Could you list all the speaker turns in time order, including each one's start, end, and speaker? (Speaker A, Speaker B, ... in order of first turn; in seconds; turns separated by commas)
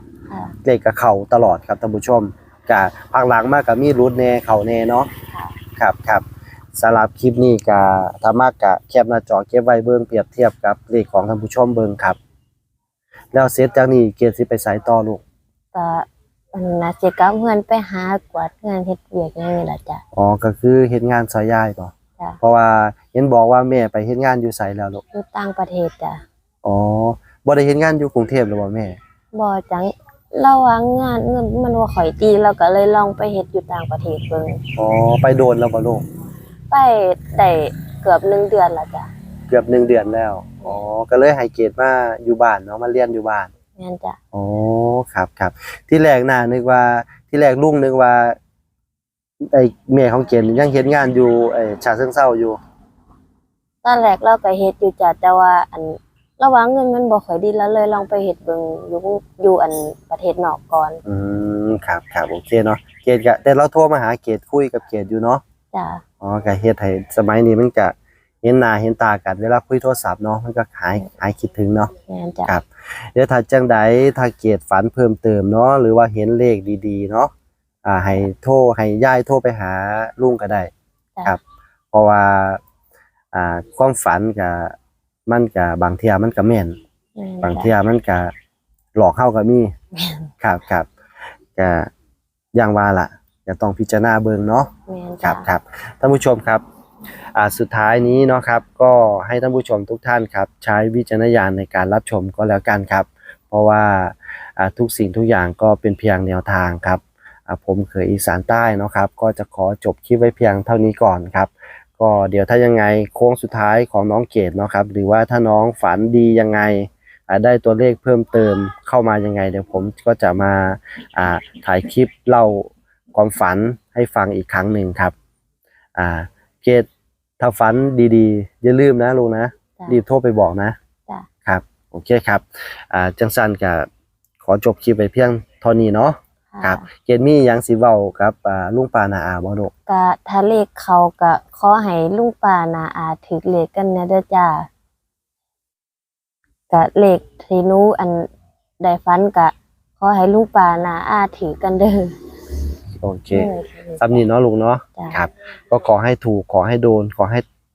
Speaker A: 0.3-0.6, Speaker B: 0.6-5.1, Speaker A: 5.3-5.6, Speaker B: 5.8-12.2, Speaker B: 13.3-15.2, Speaker A: 15.7-20.0, Speaker B: 20.1-25.0, Speaker A: 25.1-26.2, Speaker B: 26.6-29.0, Speaker A: 29.3-34.6, Speaker B: 34.8-36.0, Speaker A: 36.7-39.1, Speaker B: 39.5-43.5, Speaker A: 43.8-44.2, Speaker B: 44.3-48.4, Speaker B: 49.5-52.6, Speaker A: 53.8-61.0, Speaker B: 61.0-65.4, Speaker A: 65.7-66.0, Speaker B: 66.2-71.9, Speaker A: 72.1-72.5, Speaker B: 72.5-77.3, Speaker B: 77.8-80.7, Speaker B: 81.9-82.6, Speaker B: 83.3-84.8, Speaker B: 85.3-86.8, Speaker A: 87.2-87.7, Speaker B: 87.4-88.3, Speaker B: 89.0-89.7, Speaker A: 89.9-90.3, Speaker B: 90.4-90.9, Speaker B: 91.5-91.9, Speaker B: 92.5-94.7, Speaker A: 94.9-95.5, Speaker B: 95.2-96.6, Speaker B: 97.3-125.1, Speaker B: 126.0-126.9, Speaker B: 127.4-130.8, Speaker B: 131.4-133.9, Speaker B: 134.4-139.7, Speaker A: 136.5-136.9, Speaker A: 139.9-144.7, Speaker A: 146.7-148.3, Speaker A: 148.8-152.2, Speaker B: 153.0-157.5, Speaker A: 153.3-154.2